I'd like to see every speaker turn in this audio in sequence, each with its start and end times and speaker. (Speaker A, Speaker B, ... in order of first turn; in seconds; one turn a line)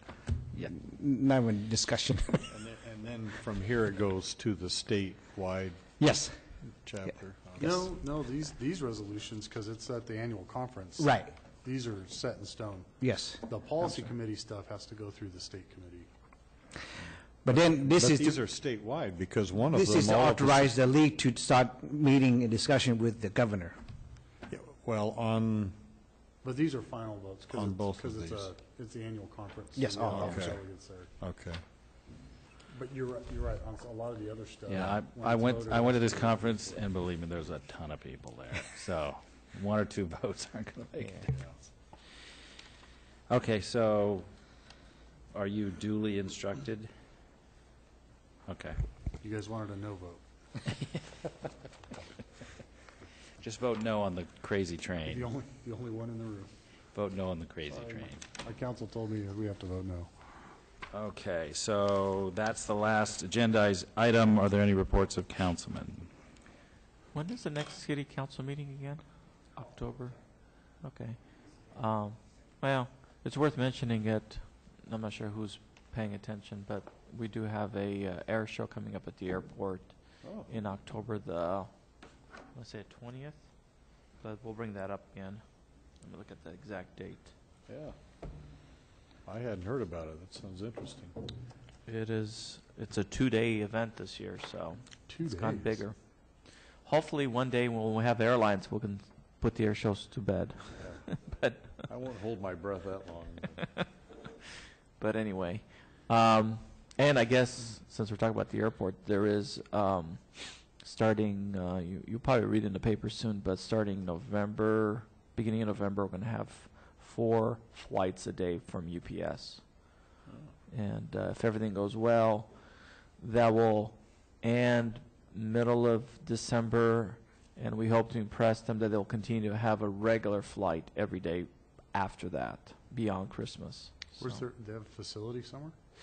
Speaker A: 0.5-2.5
Speaker B: 2.5-5.9
Speaker A: 6.0-6.3
Speaker B: 6.8-7.9
Speaker C: 7.6-16.1
Speaker A: 11.0-11.3
Speaker A: 13.0-13.4
Speaker A: 17.4-18.4
Speaker B: 17.8-20.7
Speaker A: 19.7-23.8
Speaker B: 24.5-25.7
Speaker C: 26.4-31.1
Speaker B: 27.5-28.5
Speaker A: 29.7-30.6
Speaker B: 30.1-30.6
Speaker B: 31.2-31.6
Speaker C: 32.7-36.8
Speaker D: 34.7-41.3
Speaker B: 41.2-41.5
Speaker D: 43.3-44.3
Speaker D: 45.3-46.9
Speaker D: 48.5-48.8
Speaker C: 49.2-50.2
Speaker D: 53.4-55.3
Speaker C: 55.0-56.5
Speaker D: 56.9-58.2
Speaker C: 58.3-60.1
Speaker D: 60.9-66.1
Speaker E: 67.1-70.2
Speaker E: 70.8-71.2
Speaker E: 71.7-79.9
Speaker B: 80.2-80.5
Speaker E: 80.5-81.7
Speaker E: 82.5-83.5
Speaker E: 84.2-85.4
Speaker E: 86.0-87.3
Speaker B: 87.7-87.9
Speaker B: 89.2-91.1
Speaker E: 91.8-96.0
Speaker C: 95.1-95.8
Speaker E: 96.8-101.8
Speaker B: 101.9-103.6
Speaker E: 105.0-119.8
Speaker E: 120.7-122.5
Speaker E: 123.2-134.4
Speaker C: 134.2-135.7